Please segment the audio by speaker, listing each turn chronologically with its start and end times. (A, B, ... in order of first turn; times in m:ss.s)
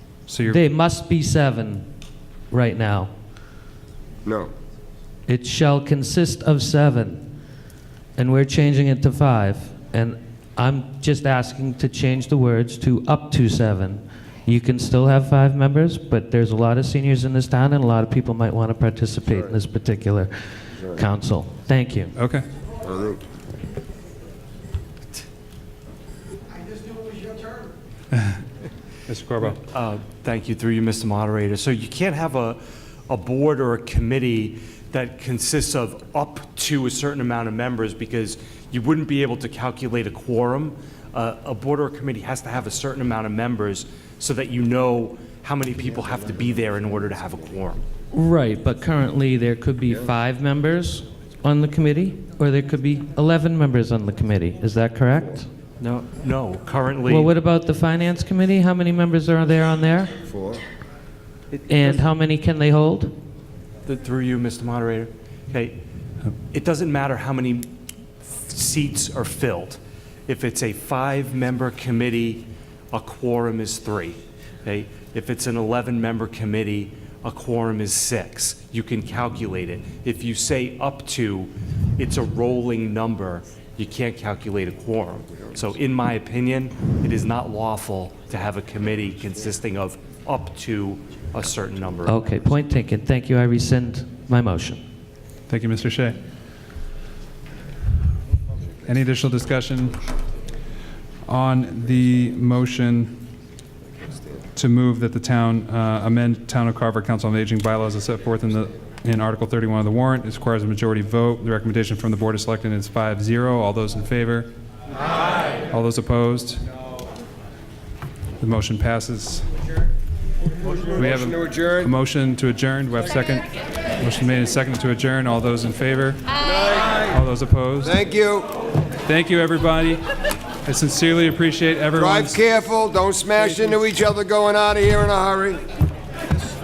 0:00.3-0:00.6 A
0:00.4-0:01.9 B
0:02.5-0:03.1 B
0:04.2-0:04.5 C
0:05.3-0:07.2 B
0:08.2-0:22.1 B
0:22.2-0:22.4 A
0:22.8-0:23.2 C
0:29.1-0:29.6 A
0:29.4-0:47.8 D
0:48.1-0:55.5 B
0:55.8-0:57.3 D
0:57.0-1:00.1 B
1:00.2-1:00.6 C
1:01.5-1:02.0 D
1:01.7-1:03.1 B
1:03.8-1:05.8 D
1:06.5-1:32.5 D
1:32.0-1:34.8 B
1:35.5-1:36.2 A
1:38.8-1:40.0 A
1:41.2-1:43.2 A
1:44.5-1:54.5 A
1:55.6-1:56.6 A
1:58.4-1:59.5 A
2:00.8-2:01.9 C
2:01.0-2:06.3 A
2:06.4-2:07.2 C
2:07.1-2:08.0 A
2:07.8-2:08.5 C
2:09.0-2:10.0 A
2:10.6-2:12.4 A
2:12.0-2:15.7 C